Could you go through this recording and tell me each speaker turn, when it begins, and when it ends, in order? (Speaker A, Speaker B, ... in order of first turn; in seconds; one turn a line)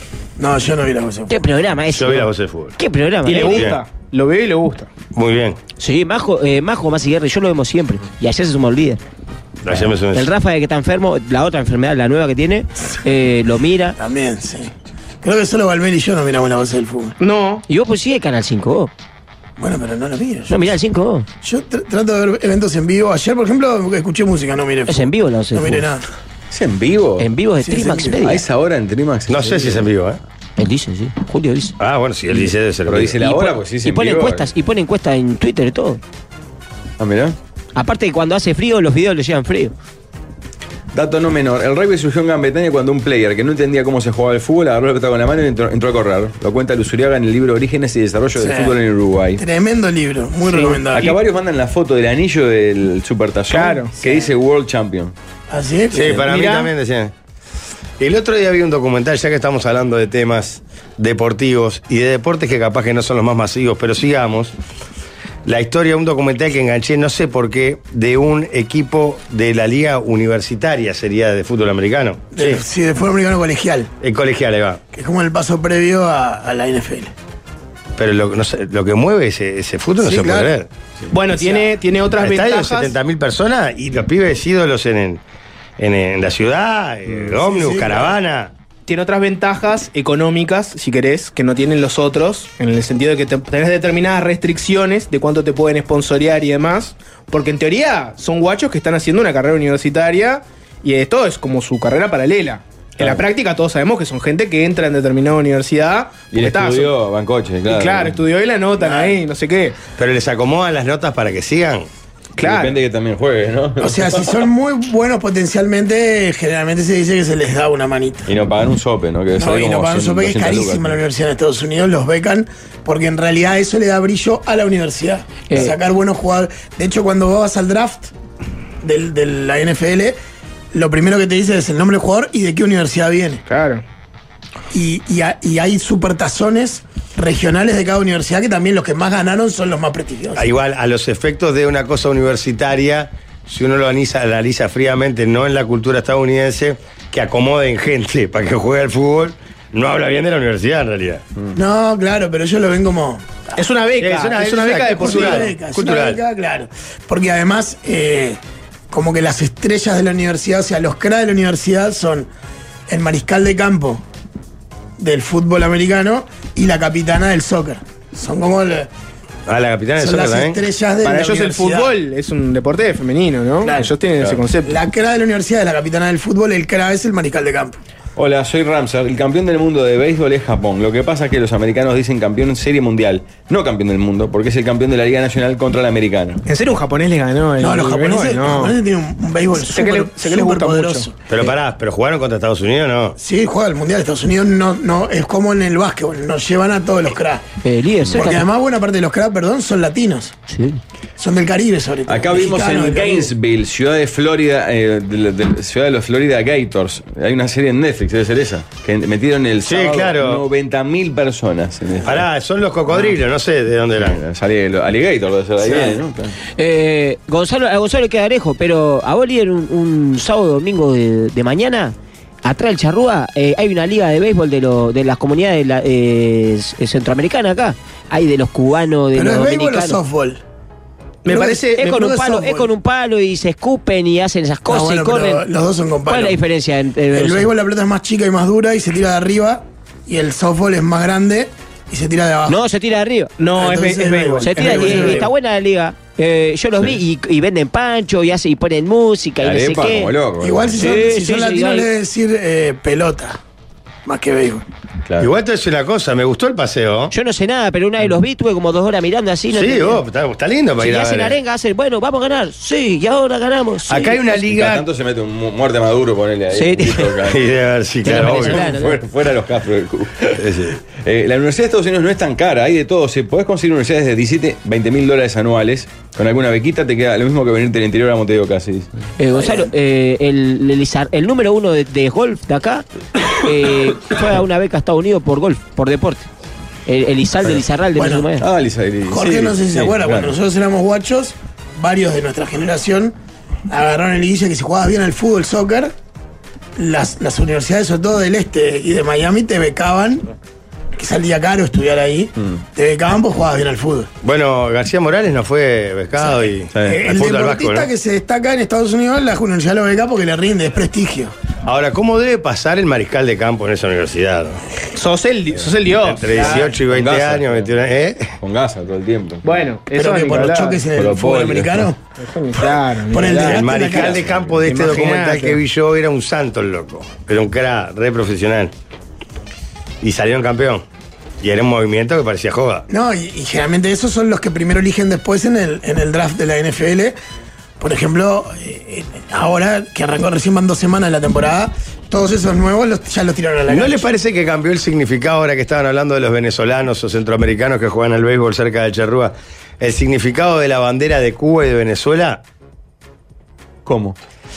Speaker A: 0.4-1.3
Speaker B: 1.3-3.7
Speaker C: 1.9-2.8
Speaker D: 3.2-4.9
Speaker C: 3.4-3.8
Speaker C: 5.1-5.6
Speaker B: 5.8-9.0
Speaker C: 9.6-10.3
Speaker B: 10.1-14.0
Speaker A: 14.0-17.2
Speaker D: 17.2-17.6
Speaker B: 17.7-18.9
Speaker A: 19.6-20.6
Speaker B: 20.5-21.2
Speaker A: 21.4-26.0
Speaker B: 24.9-25.9
Speaker E: 26.5-27.3
Speaker B: 27.2-28.4
Speaker A: 27.6-28.1
Speaker E: 28.2-29.9
Speaker C: 29.3-30.2
Speaker B: 30.6-31.7
Speaker C: 31.8-33.2
Speaker E: 32.9-34.5
Speaker B: 33.2-36.0
Speaker E: 37.0-37.4
Speaker B: 37.8-39.7
Speaker E: 40.9-49.4
Speaker A: 48.4-48.7
Speaker A: 49.4-51.2
Speaker D: 50.4-50.8
Speaker E: 50.9-55.1
Speaker D: 53.5-53.9
Speaker A: 54.0-54.3
Speaker A: 55.5-56.3
Speaker C: 55.9-57.1
Speaker D: 56.1-56.7
Speaker C: 58.0-64.5
Speaker C: 65.4-72.6
Speaker A: 72.3-73.9
Speaker C: 74.0-74.8
Speaker A: 74.9-77.1
Speaker C: 78.0-80.7
Speaker A: 80.0-80.5
Speaker D: 81.1-82.9
Speaker A: 81.3-81.7
Speaker C: 82.2-85.2
Speaker C: 85.8-88.5
Speaker A: 87.3-88.2
Speaker D: 88.9-106.9
Speaker E: 106.3-108.2
Speaker D: 107.7-109.8
Speaker C: 110.0-111.9
Speaker D: 112.4-112.7
Speaker E: 112.4-114.5
Speaker A: 113.8-118.3
Speaker E: 118.2-121.0
Speaker A: 119.4-128.1
Speaker A: 128.8-130.2
Speaker A: 130.7-133.4
Speaker D: 133.5-133.8
Speaker A: 134.7-140.5
Speaker C: 140.3-151.2
Speaker A: 151.5-153.2
Speaker D: 153.6-155.5
Speaker C: 154.0-156.2
Speaker A: 154.9-162.3
Speaker A: 162.9-164.0
Speaker A: 165.0-168.9
Speaker C: 169.5-170.6
Speaker A: 170.0-171.9
Speaker D: 171.0-174.8
Speaker A: 173.6-173.9
Speaker A: 174.6-177.8
Speaker E: 178.2-186.4
Speaker D: 186.4-188.8
Speaker A: 187.6-191.1
Speaker D: 189.6-191.1
Speaker C: 191.3-193.2
Speaker A: 193.2-197.4
Speaker B: 197.6-198.5
Speaker A: 198.1-200.3
Speaker B: 200.5-200.8
Speaker A: 201.2-203.3
Speaker E: 202.1-212.2
Speaker C: 209.6-210.4
Speaker C: 212.0-214.2
Speaker E: 214.0-216.3
Speaker B: 215.7-215.9
Speaker B: 216.5-230.0
Speaker A: 229.1-230.4
Speaker D: 231.2-232.0
Speaker A: 231.3-232.7
Speaker B: 231.8-235.4
Speaker A: 234.7-236.4
Speaker B: 236.1-237.5
Speaker A: 237.1-242.6
Speaker B: 242.5-243.3
Speaker D: 243.4-245.2
Speaker A: 243.5-245.3
Speaker B: 244.4-250.1
Speaker E: 249.4-250.9
Speaker A: 250.4-253.4
Speaker B: 250.8-251.9
Speaker A: 254.0-254.6
Speaker E: 255.1-255.3
Speaker C: 255.2-257.1
Speaker B: 257.1-260.0
Speaker C: 259.5-261.4
Speaker B: 260.8-264.2
Speaker C: 263.9-264.9
Speaker E: 264.4-267.5
Speaker B: 266.5-267.1
Speaker C: 267.2-268.7
Speaker B: 268.0-269.0
Speaker E: 268.0-278.9
Speaker C: 270.4-270.8
Speaker B: 279.2-286.3
Speaker A: 279.4-279.7
Speaker B: 286.9-288.4
Speaker A: 287.9-288.2
Speaker E: 288.4-290.4
Speaker A: 289.1-293.1
Speaker A: 293.7-295.9
Speaker A: 296.8-300.3
Speaker A: 300.9-304.1
Speaker C: 304.2-307.9
Speaker E: 306.7-307.0
Speaker A: 306.9-311.3
Speaker C: 311.6-314.6
Speaker D: 314.9-316.8
Speaker C: 316.0-318.4
Speaker E: 316.4-317.7
Speaker E: 318.4-319.6
Speaker D: 319.4-320.8
Speaker A: 319.9-322.0
Speaker E: 320.9-321.9
Speaker D: 322.2-324.0
Speaker A: 322.6-324.2
Speaker C: 323.4-328.7
Speaker E: 324.0-324.6
Speaker D: 324.6-325.6
Speaker C: 330.0-330.8
Speaker C: 331.4-332.9
Speaker A: 332.9-337.1
Speaker A: 337.8-344.1
Speaker C: 343.7-352.4
Speaker E: 353.9-354.1